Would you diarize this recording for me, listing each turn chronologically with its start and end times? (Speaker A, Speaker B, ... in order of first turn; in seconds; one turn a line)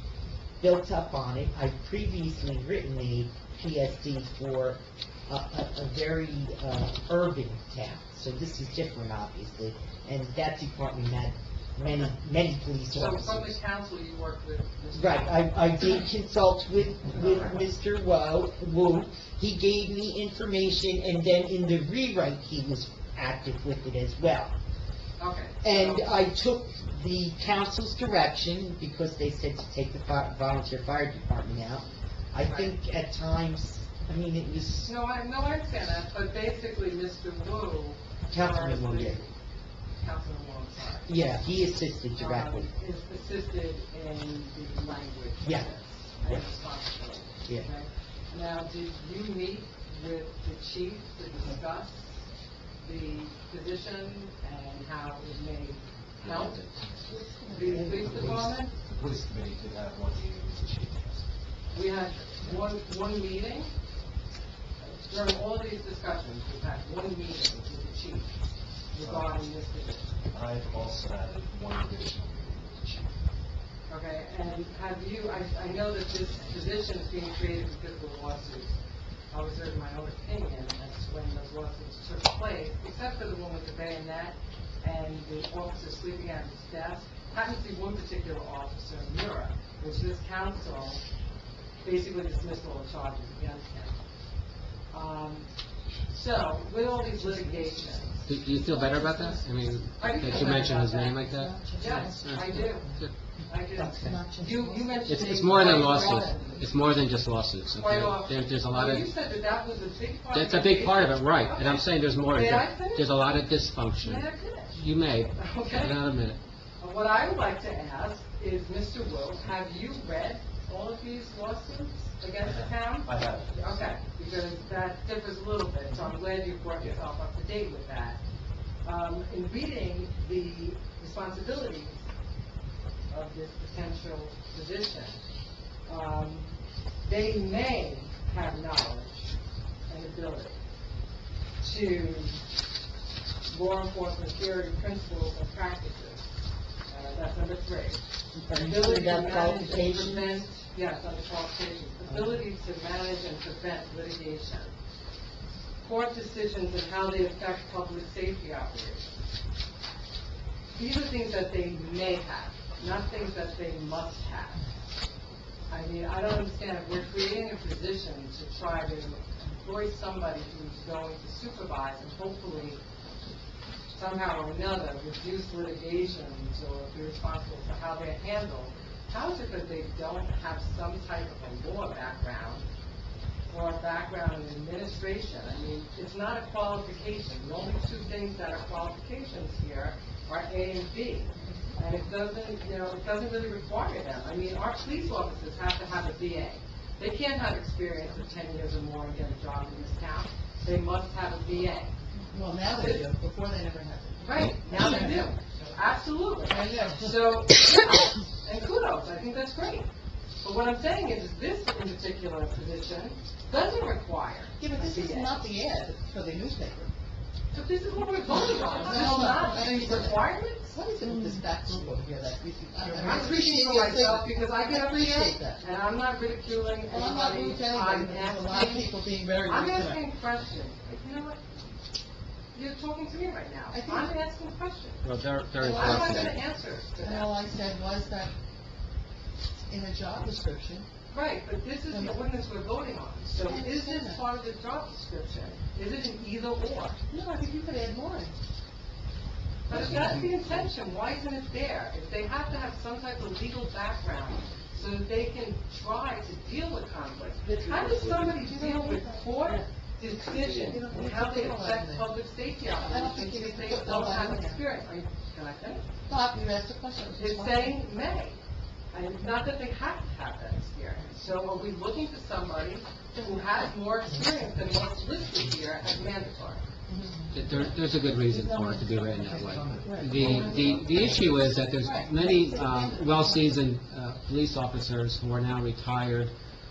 Speaker A: 0.6-13.6
Speaker B: 12.9-15.5
Speaker A: 14.9-24.5
Speaker B: 25.2-26.2
Speaker A: 25.6-34.9
Speaker B: 32.4-32.7
Speaker B: 34.8-39.3
Speaker A: 38.3-39.2
Speaker B: 40.0-41.2
Speaker A: 41.0-42.7
Speaker B: 42.1-52.2
Speaker A: 45.4-45.7
Speaker B: 52.8-56.6
Speaker C: 56.2-61.3
Speaker D: 57.1-58.1
Speaker B: 57.5-58.7
Speaker B: 61.7-63.7
Speaker B: 64.8-68.3
Speaker B: 68.9-70.1
Speaker C: 69.0-69.4
Speaker C: 70.3-73.2
Speaker B: 73.9-78.8
Speaker B: 79.3-91.0
Speaker B: 91.8-94.0
Speaker B: 94.9-95.5
Speaker B: 96.1-98.3
Speaker D: 97.2-99.4
Speaker E: 98.2-103.1
Speaker B: 100.0-106.7
Speaker D: 101.3-102.7
Speaker A: 103.8-104.2
Speaker D: 103.8-106.2
Speaker E: 105.0-109.1
Speaker B: 107.8-113.4
Speaker E: 110.3-116.4
Speaker B: 114.0-116.0
Speaker B: 116.8-128.2
Speaker C: 122.4-124.0
Speaker B: 128.8-132.0
Speaker B: 133.1-135.2
Speaker B: 135.8-136.5
Speaker B: 137.0-139.3
Speaker B: 139.9-140.6
Speaker B: 141.6-142.4
Speaker B: 143.5-146.3
Speaker B: 146.9-154.7
Speaker A: 148.3-150.4
Speaker B: 155.8-159.1
Speaker B: 160.7-164.6
Speaker B: 165.7-172.8
Speaker B: 173.9-182.6
Speaker B: 183.5-201.9
Speaker D: 202.3-205.2
Speaker B: 202.8-203.0
Speaker B: 204.2-209.9
Speaker D: 206.4-207.1
Speaker B: 210.4-215.4
Speaker D: 214.6-216.9
Speaker B: 217.5-220.8
Speaker D: 218.6-225.6
Speaker B: 222.9-228.9
Speaker D: 226.9-230.0
Speaker B: 229.4-231.7
Speaker B: 232.5-235.0
Speaker D: 233.7-234.1
Speaker E: 235.0-236.4
Speaker D: 235.6-236.3
Speaker B: 235.6-237.3
Speaker D: 237.0-238.3
Speaker D: 239.7-240.9
Speaker B: 241.1-247.0
Speaker D: 241.9-242.2
Speaker D: 243.4-244.2
Speaker D: 247.1-248.3
Speaker B: 249.7-265.9
Speaker D: 249.7-250.1
Speaker D: 257.4-259.6
Speaker D: 260.4-262.1
Speaker D: 262.8-264.6
Speaker D: 266.1-267.8
Speaker B: 267.2-268.4
Speaker B: 268.9-276.6
Speaker D: 276.9-277.3
Speaker E: 277.3-286.3
Speaker D: 279.6-281.0
Speaker C: 279.8-281.5
Speaker D: 281.8-283.5